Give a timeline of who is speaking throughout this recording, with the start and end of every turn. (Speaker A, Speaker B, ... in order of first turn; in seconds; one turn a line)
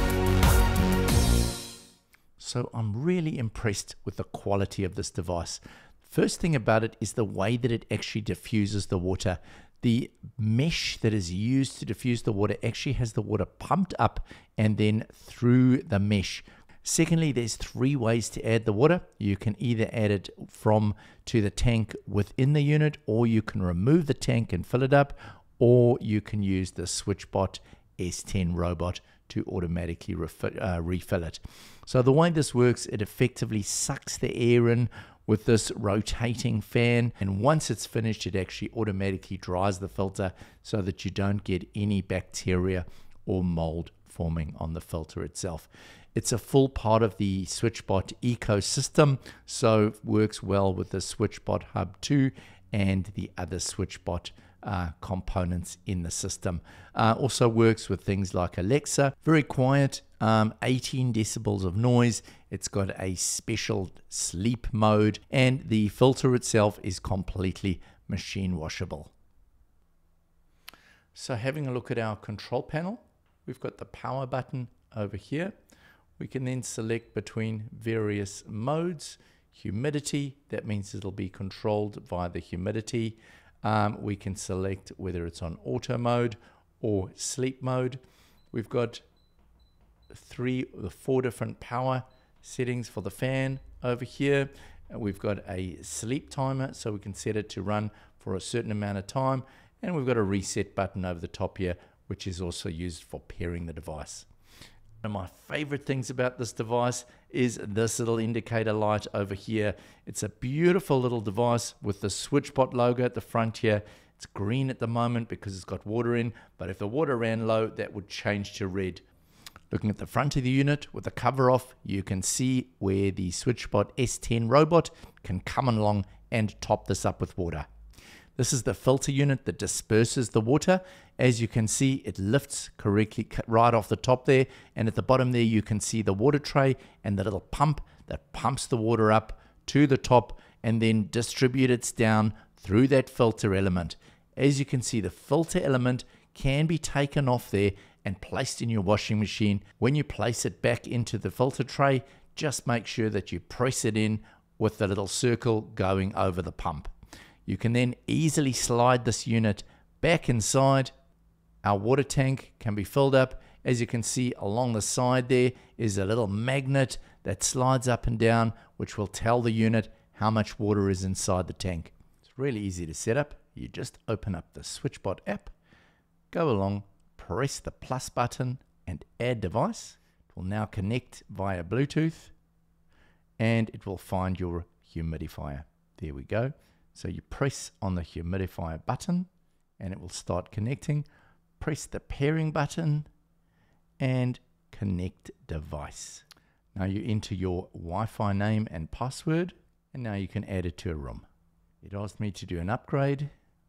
Speaker A: 2.4-69.1
Speaker A: 71.2-75.5
Speaker A: 76.2-88.0
Speaker A: 88.5-89.0
Speaker A: 90.1-104.3
Speaker A: 105.0-119.0
Speaker A: 119.7-127.7
Speaker A: 128.4-156.9
Speaker A: 157.5-160.9
Speaker A: 161.6-175.5
Speaker A: 176.3-182.3
Speaker A: 183.4-191.1
Speaker A: 191.6-193.1
Speaker A: 194.0-201.2
Speaker A: 201.8-203.3